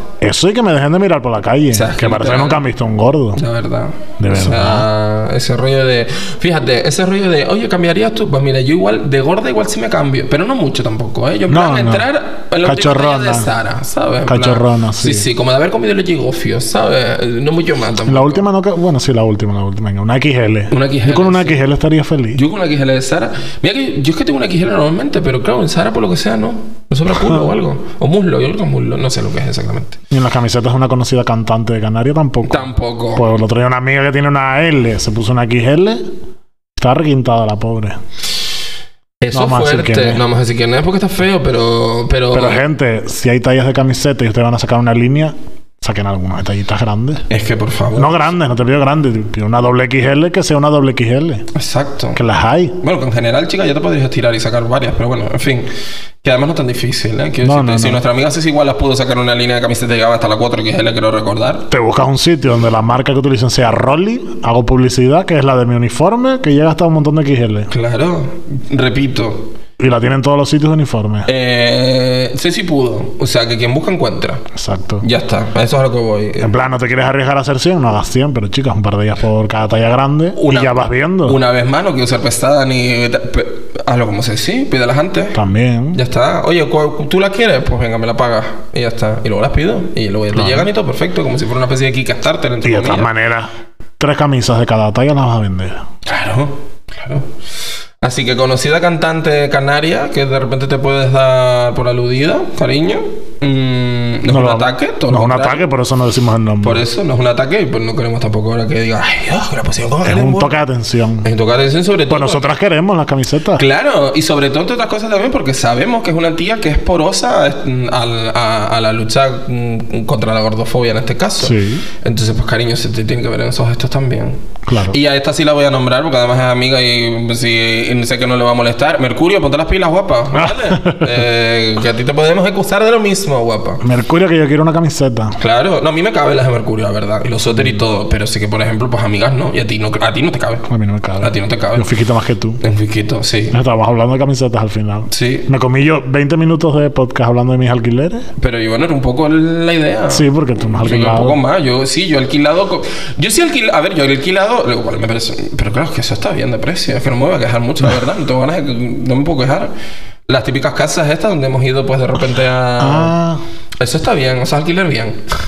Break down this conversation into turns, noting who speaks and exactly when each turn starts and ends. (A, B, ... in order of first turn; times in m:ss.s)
0:00.2-0:03.4 A
0:01.7-0:02.6 B
0:03.4-0:18.4 B
0:04.2-0:04.8 A
0:11.5-0:12.1 A
0:12.6-0:13.5 A
0:14.3-0:15.2 A
0:18.1-0:22.4 A
0:20.7-0:21.6 B
0:22.3-0:30.0 B
0:30.1-0:36.0 A
0:32.5-0:33.2 B
0:36.8-0:38.0 A
0:39.2-0:42.6 B
0:39.3-0:40.2 A
0:42.3-0:47.2 A
0:47.3-0:48.2 B
0:48.0-0:51.5 A
0:51.5-0:52.2 B
0:52.1-0:52.8 A
0:52.8-0:55.7 B
0:56.2-1:01.7 B
0:57.4-0:58.0 A
1:01.7-1:07.7 A
1:07.7-1:09.5 B
1:09.8-1:11.3 A
1:11.3-1:14.4 B
1:14.5-1:15.0 A
1:15.0-1:16.5 B
1:16.4-1:21.4 A
1:20.3-1:25.4 B
1:25.3-1:26.0 A
1:25.9-1:33.1 B
1:30.3-1:30.7 A
1:32.6-1:35.8 A
1:36.0-1:37.3 B
1:38.0-1:45.6 B
1:44.3-1:46.8 A
1:46.6-1:50.6 B
1:50.0-1:51.3 A
1:51.2-1:52.5 B
1:52.1-1:53.6 A
1:53.6-2:13.8 B
2:01.4-2:01.8 A
2:04.7-2:05.0 A
2:10.3-2:11.2 A
2:13.8-2:15.3 A
2:15.4-2:20.6 B
2:20.7-2:22.6 A
2:21.2-2:21.9 B
2:22.6-2:23.6 B
2:23.5-2:28.2 A
2:25.1-2:25.5 B
2:28.4-2:30.3 B
2:30.1-2:31.4 A
2:30.8-2:39.7 B
2:40.3-2:43.1 B
2:42.8-2:43.4 A
2:43.8-2:45.2 B